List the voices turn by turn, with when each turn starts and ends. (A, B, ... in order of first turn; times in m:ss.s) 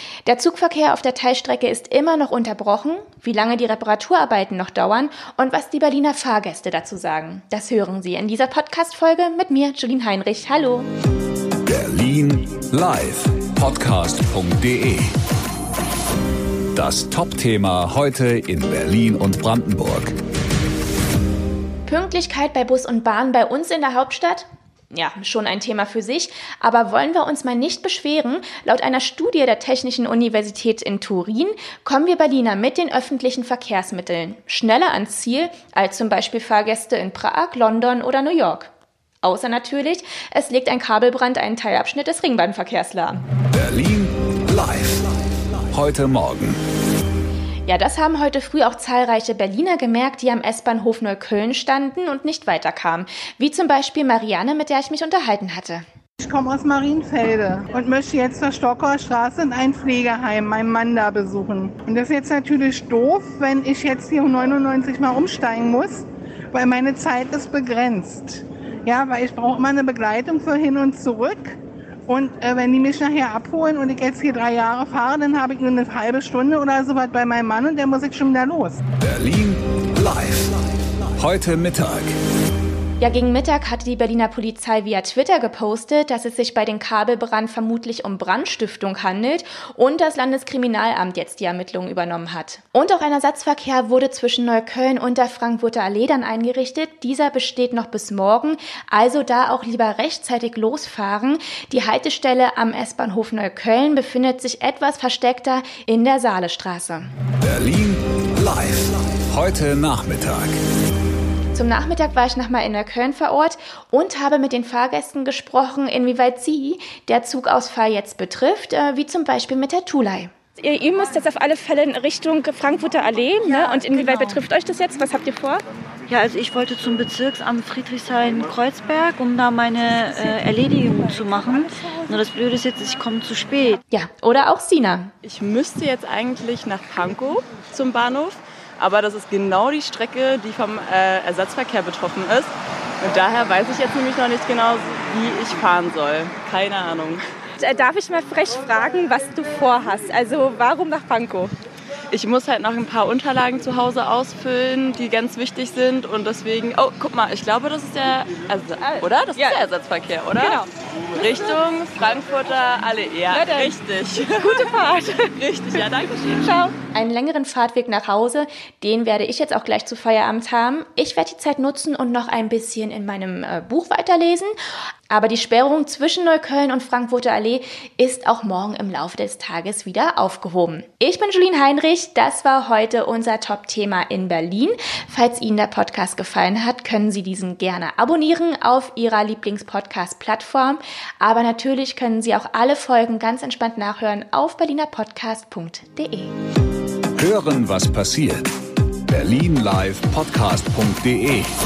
0:00.2-0:10.9 A
0:11.6-0:15.1 B
0:16.7-0:20.1 B
0:21.8-0:38.7 A
0:39.2-0:43.2 A
0:43.5-0:46.6 B
0:47.6-0:55.8 A
0:56.2-1:18.8 C
1:19.0-1:20.6 B
1:21.2-1:22.2 B
1:23.0-1:47.1 A
1:47.4-1:50.5 B
1:51.5-2:00.3 A
2:00.6-2:05.6 D
2:06.1-2:13.8 E
2:13.9-2:15.1 A
2:15.2-2:27.2 F
2:27.6-2:31.5 D
2:32.1-2:46.7 F
2:43.3-2:43.7 D
2:44.4-2:45.3 D
2:46.9-2:54.5 A
2:55.1-3:16.3 A
3:17.2-3:18.5 B
3:19.0-3:21.5 B